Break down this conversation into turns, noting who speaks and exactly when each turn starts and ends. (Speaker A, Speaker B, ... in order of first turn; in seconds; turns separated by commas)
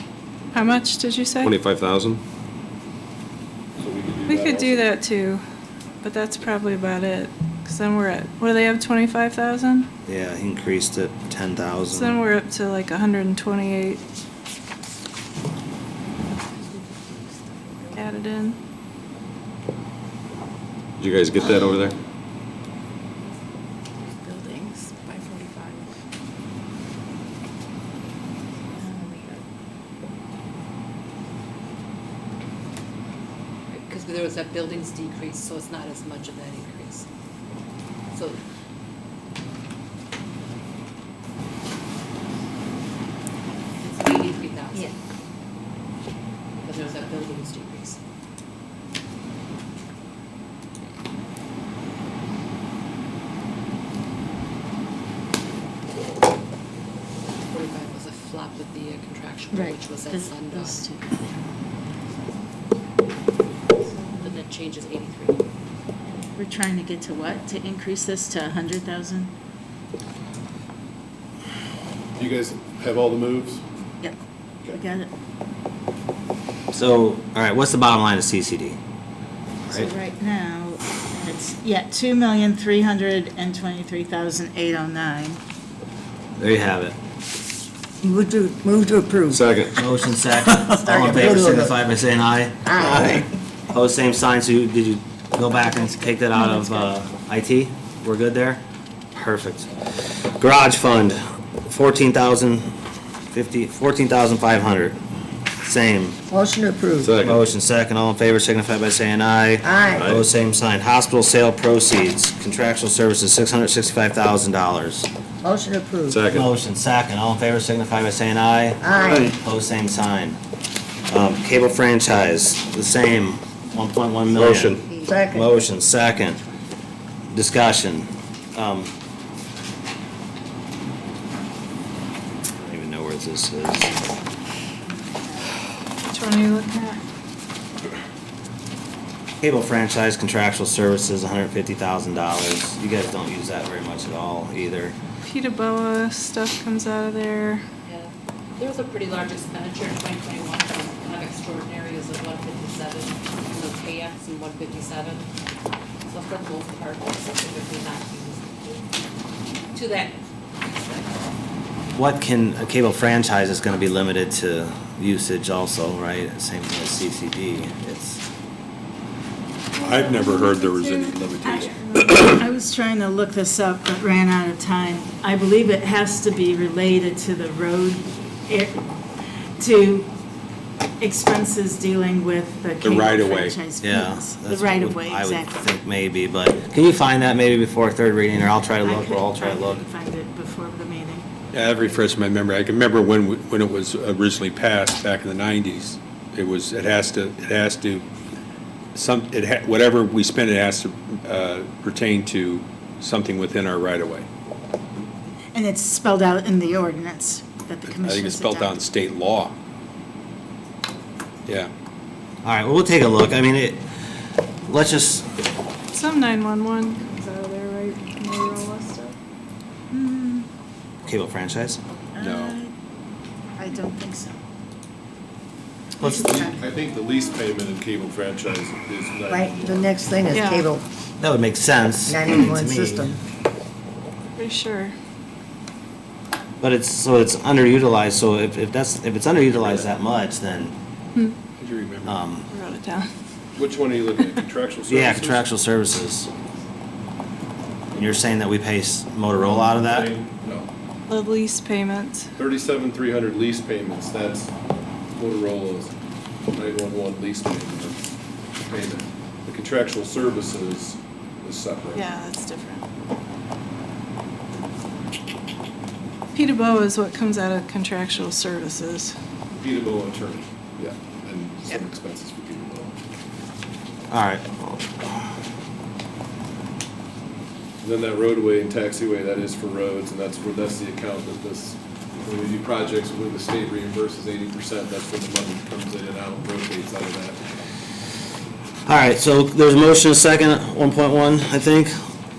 Speaker A: 0.5-1.5, Speaker B: 1.4-2.2, Speaker C: 3.8-4.9, Speaker A: 4.2-5.4, Speaker A: 6.0-9.9, Speaker D: 10.1-12.2, Speaker A: 11.9-14.0, Speaker A: 17.9-18.6, Speaker B: 21.0-21.9, Speaker E: 33.7-37.1, Speaker E: 38.1-38.4, Speaker E: 43.8-45.0, Speaker E: 46.6-48.0, Speaker E: 57.5-60.9, Speaker F: 60.1-61.4, Speaker E: 64.2-65.4, Speaker F: 66.4-69.3, Speaker C: 72.2-73.6, Speaker F: 74.7-75.1, Speaker D: 76.7-78.8, Speaker F: 79.7-85.4, Speaker D: 86.4-87.0, Speaker G: 88.0-89.5, Speaker D: 89.8-98.6, Speaker G: 90.5-91.8, Speaker G: 92.7-93.3, Speaker F: 95.5-96.9, Speaker D: 99.2-99.7, Speaker D: 100.4-102.7, Speaker D: 103.3-105.0, Speaker D: 105.6-106.2, Speaker G: 106.3-107.2, Speaker D: 107.2-115.1, Speaker G: 109.6-110.2, Speaker G: 115.4-116.2, Speaker B: 116.1-116.5, Speaker D: 116.3-120.4, Speaker G: 118.8-119.3, Speaker D: 121.1-126.4, Speaker B: 124.4-124.8, Speaker G: 124.9-125.5, Speaker D: 127.3-128.9, Speaker D: 132.6-134.0, Speaker F: 134.8-135.5, Speaker A: 136.1-137.0, Speaker D: 139.4-145.0, Speaker A: 145.2-147.6, Speaker E: 147.8-155.3, Speaker E: 156.1-158.9, Speaker E: 159.7-161.2, Speaker D: 161.9-168.2, Speaker A: 169.8-171.2, Speaker H: 169.8-172.4, Speaker F: 171.4-178.9, Speaker F: 179.6-180.1, Speaker F: 181.0-185.5, Speaker H: 182.8-183.6, Speaker D: 183.8-189.8, Speaker F: 188.8-191.3, Speaker H: 191.5-198.1, Speaker H: 198.9-204.3, Speaker F: 205.5-208.8, Speaker H: 207.9-209.5, Speaker D: 212.4-213.8, Speaker D: 214.7-215.2, Speaker A: 215.9-219.1, Speaker F: 219.9-220.5, Speaker D: 221.1-221.8, Speaker F: 222.0-222.7, Speaker H: 222.2-222.6, Speaker F: 223.6-224.4, Speaker D: 226.0-226.5, Speaker F: 226.0-226.5, Speaker C: 226.1-230.1, Speaker G: 229.3-230.8, Speaker A: 230.3-230.7, Speaker D: 231.2-233.1, Speaker G: 232.1-233.2, Speaker A: 234.4-234.9, Speaker D: 236.6-240.7, Speaker H: 241.6-242.2, Speaker D: 242.0-242.5, Speaker A: 242.5-243.1, Speaker C: 243.6-245.5, Speaker D: 244.9-246.3, Speaker D: 247.9-250.2, Speaker C: 249.8-250.7, Speaker A: 251.1-252.3, Speaker C: 252.4-254.5, Speaker C: 255.2-255.9, Speaker C: 256.5-258.1, Speaker C: 258.7-262.2, Speaker A: 261.9-262.8, Speaker A: 266.3-269.1, Speaker C: 269.5-272.9, Speaker D: 274.1-275.1, Speaker C: 277.8-287.4, Speaker D: 288.9-291.9